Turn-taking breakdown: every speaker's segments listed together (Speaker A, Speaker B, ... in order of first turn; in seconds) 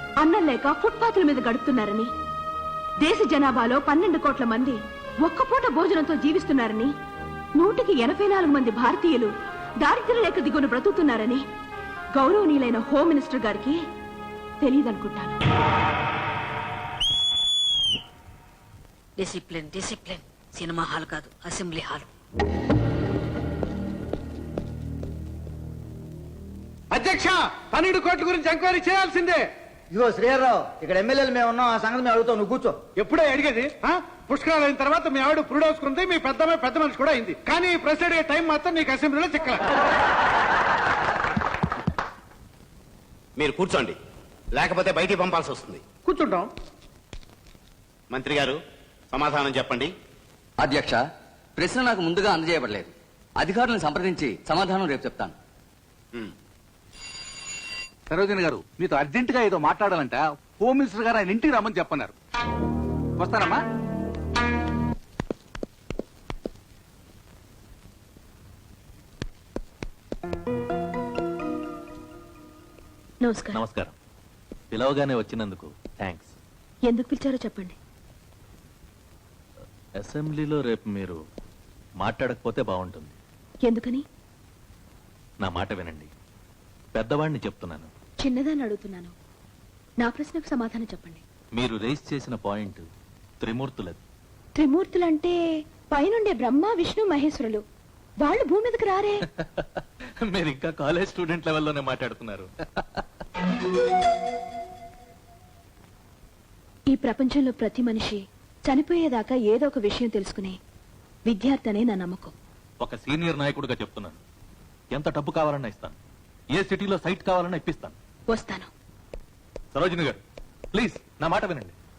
Speaker A: 0.2-2.1, 3.0-6.9, 7.6-9.3, 9.8-11.4, 12.1-13.8, 14.6-15.4, 73.2-73.6, 76.8-77.8, 83.6-84.0, 88.2-89.1, 90.0-91.2, 94.5-97.6, 98.2-99.2, 106.9-110.6, 111.2-112.3, 118.3-118.7
Speaker B: 19.2-22.1
Speaker C: 26.9-29.4, 33.0-39.6, 46.0-46.5
Speaker D: 29.9-32.8
Speaker E: 43.4-44.0, 44.5-45.8, 48.1-48.6, 49.1-49.9
Speaker F: 50.6-51.0, 51.6-55.3
Speaker G: 58.2-62.0, 63.2-63.5
Speaker H: 73.5-73.9, 74.7-76.3, 80.0-81.2, 82.0-83.2, 85.4-86.1, 86.9-87.9, 91.5-92.8, 93.4-94.0, 99.3-103.0, 112.8-114.2, 114.9-115.9, 116.5-117.9, 119.7-120.2, 120.7-121.7